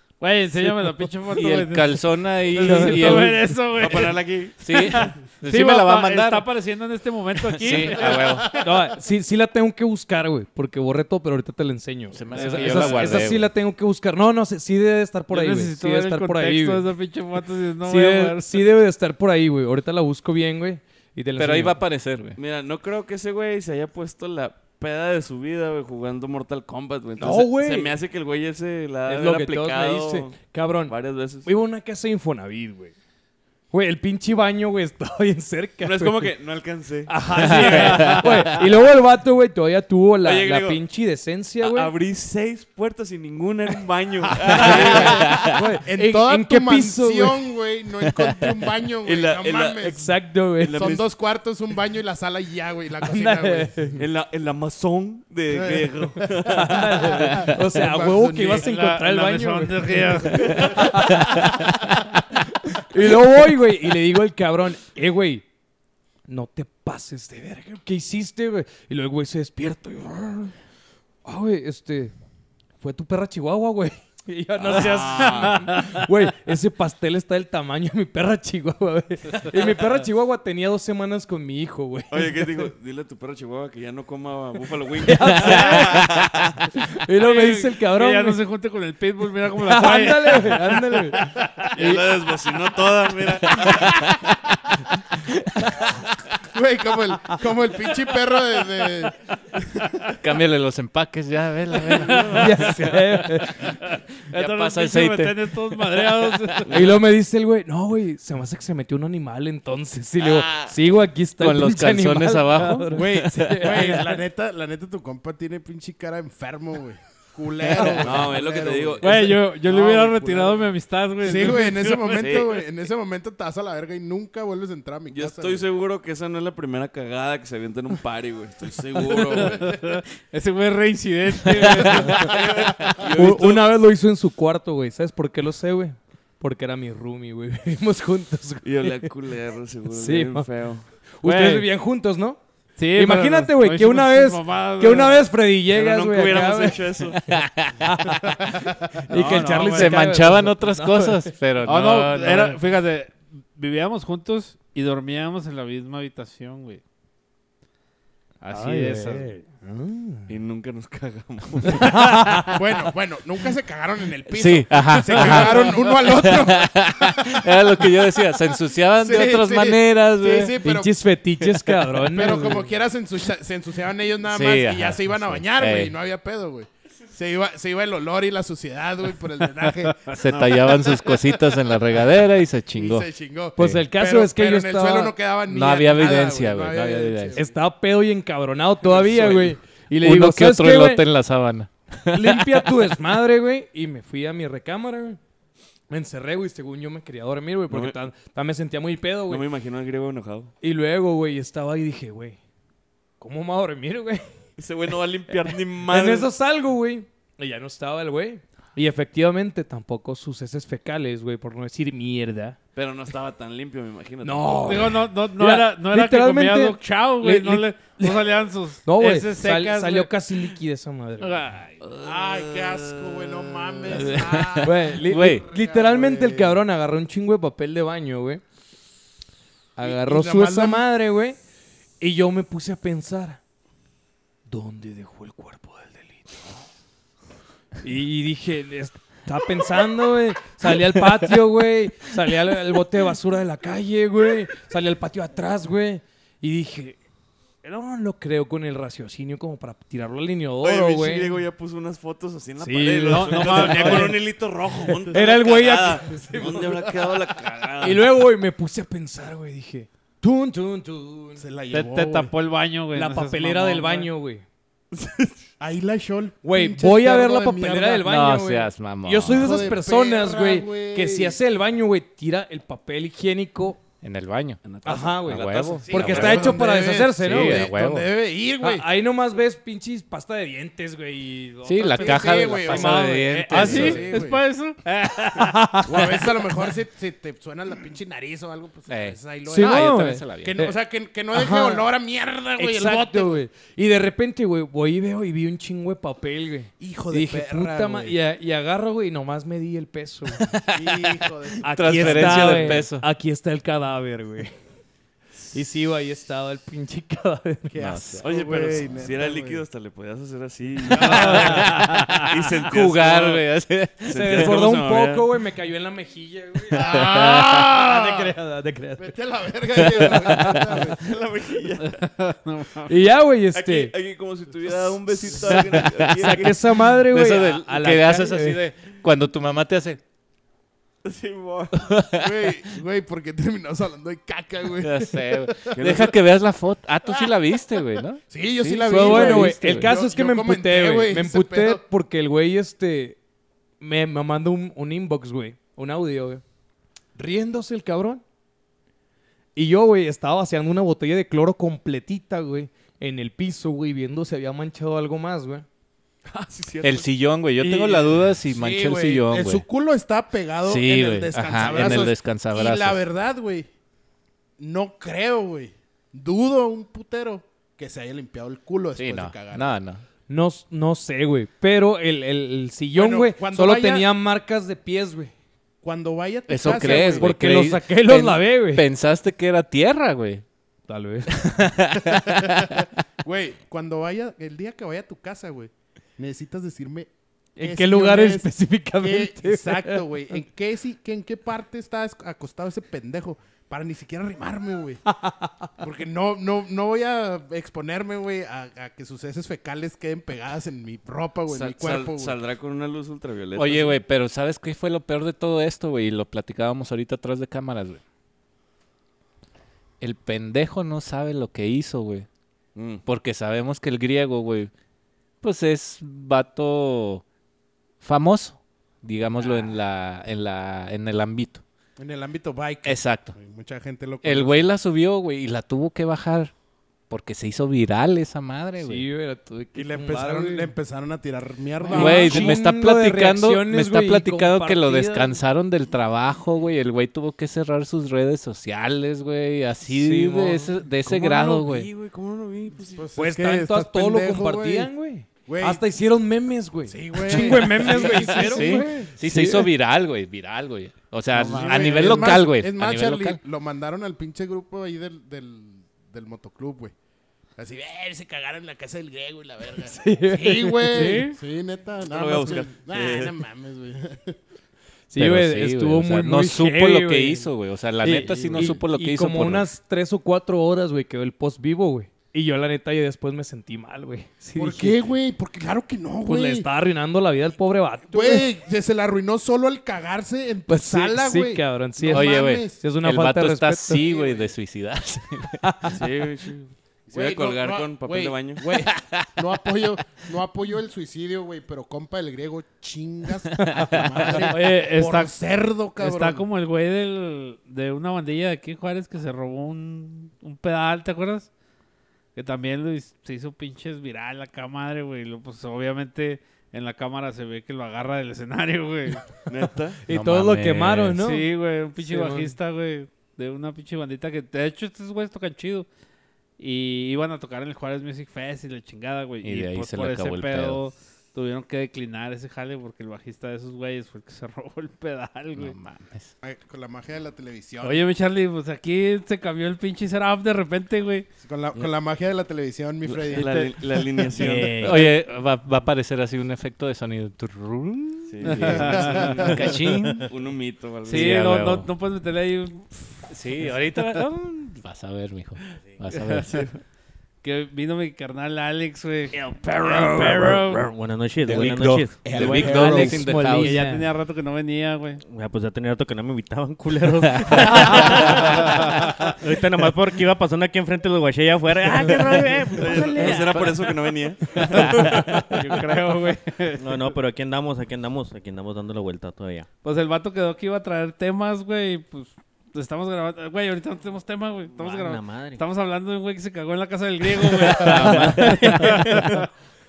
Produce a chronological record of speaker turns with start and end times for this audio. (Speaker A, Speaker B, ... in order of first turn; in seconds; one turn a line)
Speaker A: 0.2-8.5
Speaker B: 0.5-6.5
Speaker C: 2.6-3.5
Speaker D: 3.8-4.6
Speaker B: 7.5-8.5
Speaker C: 8.5-16.9
Speaker B: 12.1-13.5
Speaker A: 12.3-13.2
Speaker A: 15.3-18.6
Speaker C: 17.8-21.8
Speaker B: 21.4-22.4
Speaker D: 22.4-30.4
Speaker C: 27.2-27.9
Speaker C: 29.1-32.9
Speaker D: 30.9-31.5
Speaker C: 33.7-36.3
Speaker D: 35.8-38.3
Speaker C: 37.1-41.9
Speaker B: 37.4-38.4
Speaker D: 40.2-40.8
Speaker D: 41.6-45.5
Speaker E: 44.5-50.0
Speaker C: 44.5-47.5
Speaker D: 49.0-49.9
Speaker C: 49.8-50.9
Speaker D: 50.6-51.1
Speaker E: 50.7-53.8
Speaker C: 53.0-54.0
Speaker D: 54.0-57.1
Speaker E: 55.5-58.7
Speaker C: 56.5-61.9
Speaker A: 58.5-60.9
Speaker C: 62.7-65.4
Speaker C: 66.3-70.5
Speaker C: 71.2-72.1
Speaker C: 72.8-82.5
Speaker D: 74.6-75.7
Speaker A: 75.5-76.0
Speaker D: 82.1-86.5
Speaker C: 85.0-88.4
Speaker A: 85.4-86.0
Speaker A: 87.2-90.8
Speaker C: 89.7-92.0
Speaker D: 91.7-94.1
Speaker C: 93.5-94.3
Speaker C: 95.2-95.9
Speaker E: 96.4-100.1
Speaker B: 100.2-103.7
Speaker C: 102.3-103.8
Speaker A: 103.8-106.9
Speaker B: 104.3-106.7
Speaker C: 106.7-114.2
Speaker D: 110.2-110.7
Speaker B: 111.4-113.7
Speaker E: 112.9-120.7
Speaker C: 117.8-118.3
Speaker D: 118.0-119.4
Speaker A: 119.0-122.2
Speaker E: 121.2-125.7
Speaker D: 122.1-122.6
Speaker D: 125.1-129.7
Speaker A: 129.4-132.4
Speaker C: 131.6-132.2
Speaker D: 132.1-133.7
Speaker C: 133.1-139.0
Speaker D: 138.6-140.9
Speaker C: 139.9-140.5
Speaker C: 141.1-142.4
Speaker A: 141.2-141.7
Speaker A: 142.8-145.2
Speaker C: 142.9-151.3
Speaker D: 145.7-147.2
Speaker B: 147.3-147.7
Speaker A: 149.1-150.0
Speaker B: 149.1-152.6
Speaker A: 151.6-156.8
Speaker A: 158.4-159.3
Speaker C: 158.5-160.3
Speaker D: 160.3-162.0
Speaker C: 161.7-162.6
Speaker E: 162.5-171.1
Speaker B: 164.3-170.6
Speaker C: 170.6-172.7
Speaker E: 172.0-181.2
Speaker B: 174.3-175.9
Speaker A: 179.8-180.2
Speaker B: 180.2-183.8
Speaker E: 182.7-187.5
Speaker C: 183.6-185.2
Speaker B: 185.5-187.4
Speaker C: 187.3-191.0
Speaker B: 190.0-192.7
Speaker C: 192.1-195.2
Speaker C: 195.9-199.4
Speaker D: 197.7-197.9
Speaker D: 199.3-200.5
Speaker C: 200.6-202.4
Speaker C: 203.2-204.2
Speaker D: 204.6-206.3
Speaker C: 205.3-212.6
Speaker D: 212.8-214.9
Speaker C: 214.2-218.3
Speaker A: 214.7-220.1
Speaker C: 218.8-221.6
Speaker A: 221.2-221.8
Speaker D: 221.8-224.4
Speaker E: 222.0-226.6
Speaker B: 224.1-225.4
Speaker C: 224.6-228.4
Speaker C: 229.8-231.4
Speaker E: 229.8-230.8
Speaker C: 232.0-233.4
Speaker C: 234.5-236.5
Speaker C: 237.8-247.0
Speaker C: 247.6-251.4
Speaker D: 250.6-258.1
Speaker C: 252.6-254.2
Speaker A: 253.1-254.2
Speaker C: 255.1-257.2
Speaker C: 257.8-261.4
Speaker E: 261.4-262.3
Speaker A: 261.7-264.1
Speaker C: 262.9-264.4
Speaker D: 265.0-265.3
Speaker E: 265.6-268.1
Speaker C: 266.4-273.8
Speaker B: 268.0-269.7
Speaker E: 269.3-271.4
Speaker B: 274.0-274.6
Speaker D: 274.6-276.4
Speaker C: 274.8-277.7
Speaker B: 275.2-276.6
Speaker E: 275.8-278.9
Speaker B: 277.2-278.1
Speaker C: 278.6-284.1
Speaker B: 281.6-284.1
Speaker E: 281.9-284.4
Speaker A: 283.5-285.8
Speaker C: 285.2-286.3
Speaker E: 285.9-293.4
Speaker B: 288.9-290.6
Speaker C: 289.5-290.7
Speaker C: 291.3-291.9
Speaker C: 292.6-300.5
Speaker E: 296.8-298.2
Speaker B: 300.4-303.1
Speaker E: 300.7-302.9
Speaker C: 301.6-304.5
Speaker C: 305.5-307.8
Speaker E: 307.7-309.6
Speaker B: 307.8-308.2
Speaker D: 308.2-313.4
Speaker E: 310.9-311.7
Speaker C: 311.3-311.6
Speaker B: 311.4-312.0
Speaker B: 312.5-314.5
Speaker D: 314.0-315.3
Speaker C: 314.1-319.1
Speaker E: 316.7-318.4
Speaker E: 319.0-321.1
Speaker D: 320.9-322.0
Speaker A: 321.9-322.9
Speaker C: 322.9-323.9
Speaker D: 323.6-326.8
Speaker C: 325.3-328.6
Speaker B: 325.8-330.0
Speaker D: 331.0-331.9
Speaker B: 331.9-332.3
Speaker E: 332.1-336.1
Speaker B: 334.8-339.9
Speaker D: 335.7-336.2
Speaker E: 338.3-341.8
Speaker C: 338.9-343.2
Speaker C: 343.8-346.4
Speaker C: 347.2-348.2
Speaker C: 349.6-355.7
Speaker D: 356.3-357.1
Speaker B: 356.8-359.6
Speaker E: 357.6-363.7
Speaker B: 360.7-363.0
Speaker E: 364.6-369.8
Speaker B: 369.0-370.0
Speaker C: 370.3-375.3
Speaker E: 372.9-374.1
Speaker E: 375.8-377.3
Speaker B: 376.5-380.4
Speaker C: 376.6-378.9
Speaker C: 380.9-381.4
Speaker B: 381.3-382.9
Speaker E: 382.1-395.0
Speaker C: 387.6-390.4
Speaker C: 395.1-395.5
Speaker E: 395.8-402.4
Speaker D: 401.5-404.0
Speaker B: 403.6-408.0
Speaker B: 410.0-412.3
Speaker D: 412.8-413.0
Speaker B: 413.1-414.7
Speaker B: 415.4-417.2
Speaker B: 418.0-421.6
Speaker E: 422.0-424.7
Speaker B: 422.9-423.4
Speaker B: 424.2-426.5
Speaker B: 427.1-429.1
Speaker C: 428.8-430.7
Speaker E: 429.8-432.6
Speaker C: 431.8-435.4
Speaker B: 431.9-441.9
Speaker C: 439.9-440.7
Speaker D: 441.0-443.1
Speaker E: 443.0-444.9
Speaker C: 443.2-449.7
Speaker E: 445.5-445.8
Speaker E: 446.9-448.9
Speaker B: 447.7-453.4
Speaker E: 451.3-456.9
Speaker D: 451.4-451.9
Speaker E: 457.6-464.4
Speaker C: 459.8-461.3
Speaker A: 460.9-461.4
Speaker D: 462.1-463.4
Speaker C: 465.1-467.5
Speaker B: 465.2-469.7
Speaker C: 468.0-475.1
Speaker E: 468.3-468.7
Speaker E: 474.6-476.7
Speaker C: 476.2-478.5
Speaker E: 478.1-482.8
Speaker C: 480.7-484.0
Speaker B: 482.1-485.6
Speaker E: 484.0-484.5
Speaker C: 485.6-485.9
Speaker D: 485.9-488.6
Speaker E: 487.1-496.4
Speaker B: 489.0-489.3
Speaker A: 494.5-495.4
Speaker A: 496.0-501.5
Speaker A: 502.4-509.3
Speaker D: 509.5-510.0
Speaker C: 510.0-512.5
Speaker B: 510.1-511.2
Speaker A: 511.2-515.9
Speaker A: 516.6-525.8
Speaker B: 519.4-520.8
Speaker B: 525.6-526.3
Speaker E: 526.4-528.0
Speaker A: 527.8-531.3
Speaker E: 531.4-533.7
Speaker D: 533.0-534.9
Speaker A: 533.3-533.7
Speaker F: 534.4-535.1
Speaker B: 534.8-540.3
Speaker D: 538.3-541.4
Speaker A: 538.4-539.6
Speaker E: 538.7-539.5
Speaker A: 541.1-544.2
Speaker B: 541.1-541.9
Speaker B: 543.3-546.6
Speaker A: 546.1-546.7
Speaker D: 546.4-546.8
Speaker A: 547.4-550.9
Speaker F: 549.4-552.4
Speaker B: 551.5-553.8
Speaker E: 552.2-553.2
Speaker A: 552.4-555.2
Speaker C: 552.6-554.1
Speaker F: 555.2-565.9
Speaker A: 558.6-559.4
Speaker D: 562.7-565.1
Speaker A: 564.7-567.1
Speaker F: 566.8-569.7
Speaker A: 569.8-579.5
Speaker F: 574.8-575.6
Speaker F: 577.4-579.5